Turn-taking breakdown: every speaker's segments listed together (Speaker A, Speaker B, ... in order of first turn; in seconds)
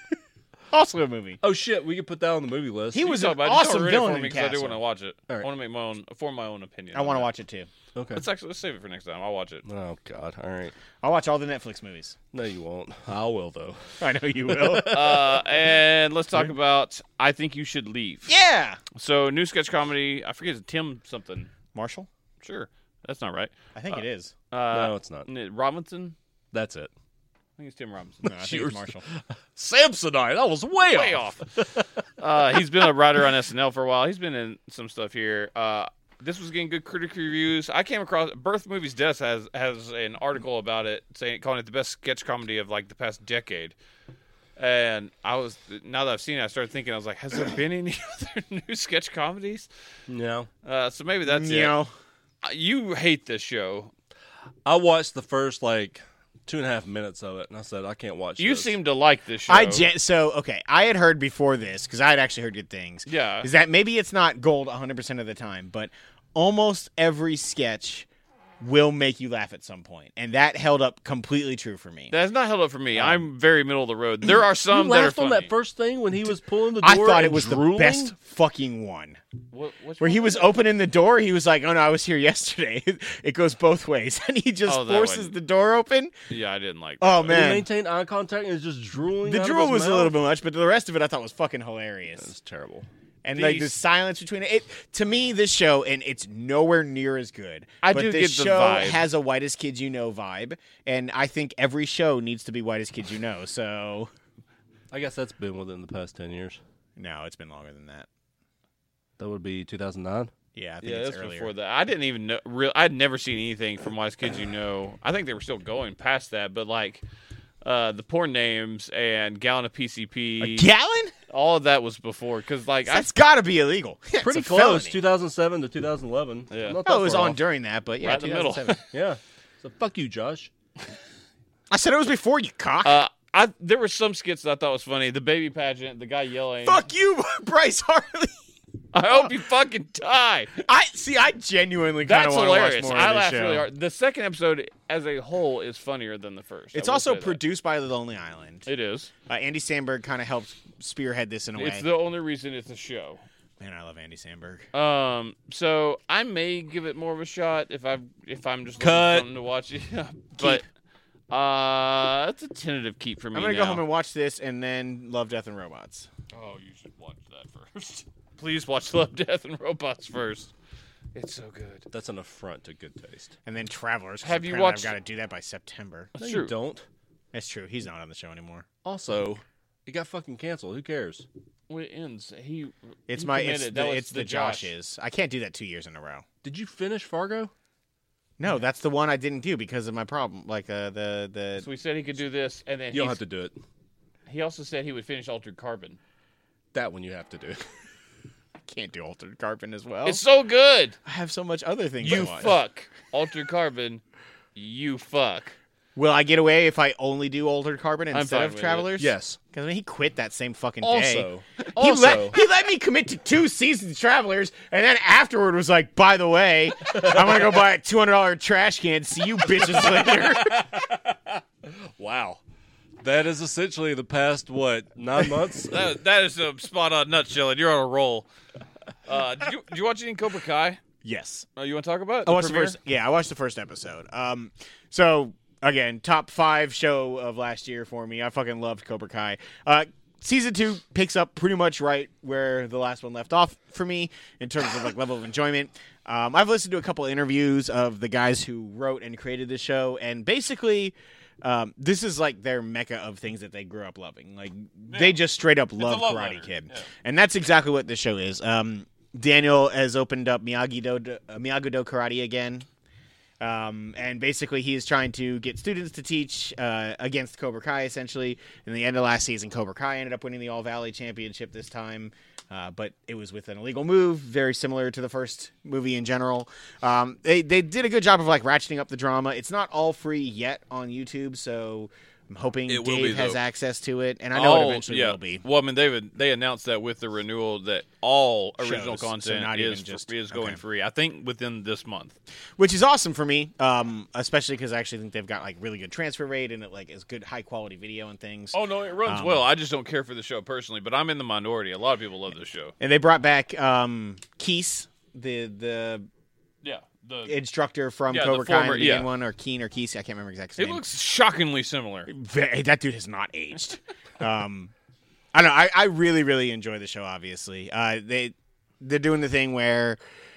Speaker A: 0.7-1.4, 2.9-4.8, 6.9-7.7, 11.0-12.2, 14.0-15.1, 18.3-18.8, 21.7-22.1, 23.7-24.3, 28.2-29.0, 51.2-51.9, 59.5-68.1, 68.6-72.1, 72.9-73.2, 76.8-79.2, 80.0-86.1, 87.0-87.7, 89.2-92.3, 93.2-104.1, 107.0-108.1, 110.5-111.5, 120.4-121.1, 122.9-125.0, 126.8-128.8, 131.7-133.0, 136.6-138.3, 140.6-143.7, 146.7-148.7, 149.3-151.8, 153.6-154.7, 163.3-166.1, 173.4-176.1, 177.3-178.7, 183.1-186.2, 188.4-191.7, 198.7-200.2, 201.0-202.5, 205.9-220.7, 231.0-231.5, 232.2-262.7, 263.4-285.4, 288.6-290.6, 292.6-299.5, 302.8-306.1, 307.3-310.8, 312.1-314.7, 315.3-320.0
Speaker B: 1.4-3.1, 7.9-8.2, 9.6-10.7, 12.3-15.3, 24.7-25.3, 26.5-26.9, 28.3-31.9, 50.1-50.5, 54.6-58.7, 74.7-78.1, 87.3-90.1, 92.2-92.9, 104.9-106.6, 109.2-110.3, 124.2-127.4, 128.9-130.5, 158.8-159.3, 171.9-173.3, 176.2-176.8, 178.8-181.3, 186.4-187.5, 192.9-193.6, 196.7-197.6, 209.0-209.4, 210.8-212.4, 216.9-217.4, 219.4-222.4, 223.0-225.8
Speaker C: 3.0-7.3, 8.1-9.6, 14.8-18.3, 18.9-21.5, 22.4-26.1, 27.6-28.3, 30.9-31.5, 32.2-43.7, 44.6-49.7, 50.6-51.8, 52.4-53.9, 58.4-59.9, 63.0-63.5, 72.1-75.5, 79.5-80.6, 84.7-85.3, 86.3-87.3, 93.3-93.7, 97.8-99.0, 110.8-117.0, 117.6-120.7, 121.3-123.1, 126.5-126.8, 128.0-128.8, 132.8-136.8, 138.9-140.6, 142.0-147.4, 148.7-149.1, 151.6-153.2, 154.7-160.6, 161.3-163.8, 166.3-170.5, 171.1-171.9, 174.2-174.9, 176.2-176.5, 181.7-184.7, 191.6-193.2, 194.3-196.0, 200.0-200.9, 202.0-204.0, 204.5-205.6, 208.1-208.9, 225.7-228.3, 229.1-230.8, 231.6-232.8, 254.9-255.2, 255.8-256.9, 282.7-283.4, 284.3-292.1, 298.5-302.7, 306.6-307.3, 308.1-309.1, 310.6-312.1